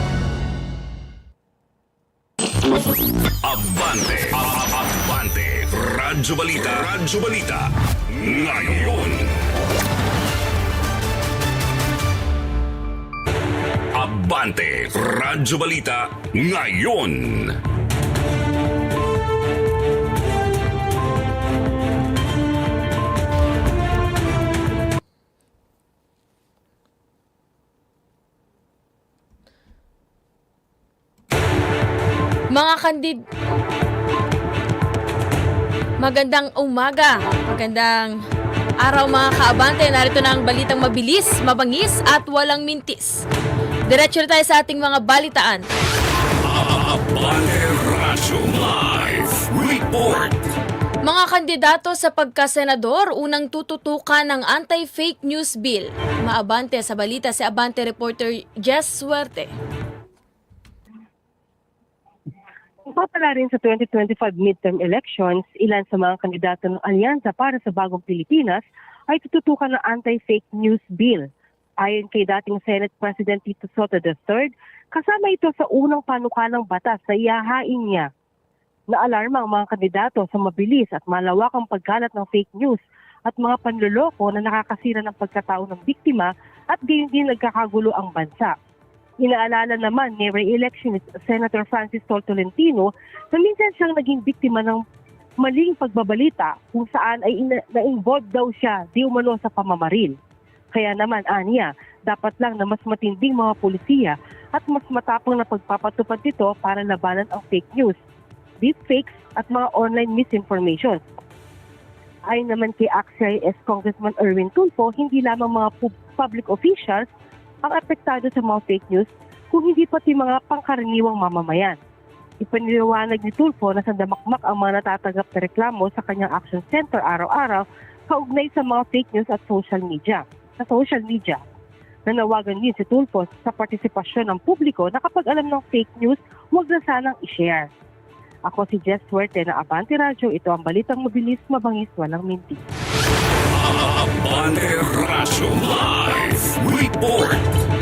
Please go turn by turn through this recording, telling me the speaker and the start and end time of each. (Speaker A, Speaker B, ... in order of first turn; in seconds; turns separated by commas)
Speaker A: 3.4-9.3, Speaker A: 13.9-17.6, Speaker B: 32.5-33.2, Speaker B: 36.0-38.2, Speaker B: 38.8-43.2, Speaker B: 43.9-45.6, Speaker A: 46.5-50.4, Speaker B: 51.0-59.5, Speaker C: 62.9-71.3, Speaker C: 71.8-78.1, Speaker C: 78.9-88.5, Speaker C: 89.2-94.8, Speaker C: 95.4-100.1, Speaker C: 100.7-108.0, Speaker C: 108.6-111.0, Speaker C: 112.3-117.1, Speaker C: 117.6-121.8, Speaker C: 122.4-131.4, Speaker C: 132.1-137.7, Speaker C: 138.4-142.6, Speaker A: 143.6-147.4